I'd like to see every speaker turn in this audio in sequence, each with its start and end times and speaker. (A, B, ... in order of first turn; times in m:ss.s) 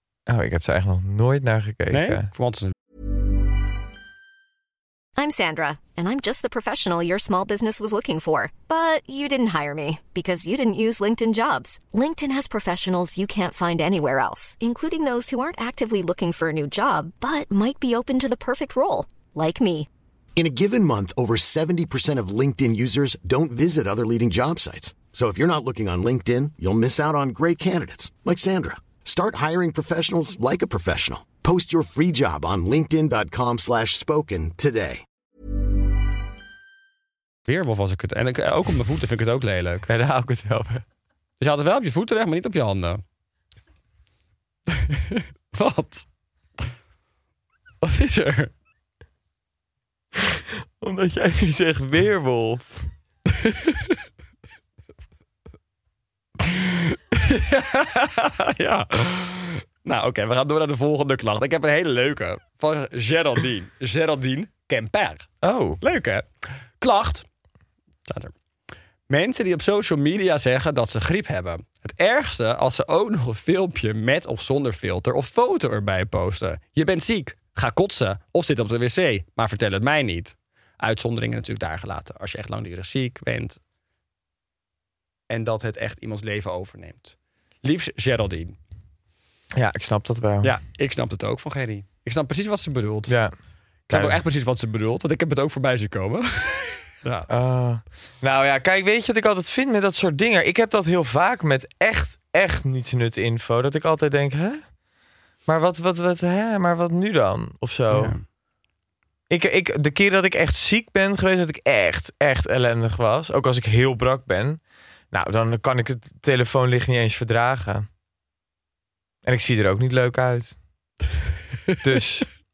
0:00.3-0:02.3 A
0:01.9-0:02.7 B
0:05.2-0:19.9 C
0:20.4-0:35.0 D
0:37.5-0:39.9 B
0:39.9-0:40.8 A
0:41.4-0:43.0 B
0:44.7-0:46.1 B
0:47.8-0:48.5 B
0:50.3-0:52.9 A
0:53.4-0:53.9 B
0:56.4-1:05.3 B
1:05.4-1:05.8 A
1:05.8-1:07.2 B
1:08.1-1:08.3 B
1:09.1-1:23.6 B
1:25.3-1:28.6 B
1:29.5-1:30.5 A
1:30.4-1:33.1 B
1:33.1-1:33.3 A
1:33.9-1:34.2 A
1:33.9-1:37.3 B
1:37.3-1:44.6 A
1:45.4-1:48.2 A
1:47.9-1:48.2 B
1:49.3-1:54.6 A
1:55.1-1:57.9 A
1:59.2-2:00.6 A
2:01.7-2:02.0 B
2:01.8-2:02.3 A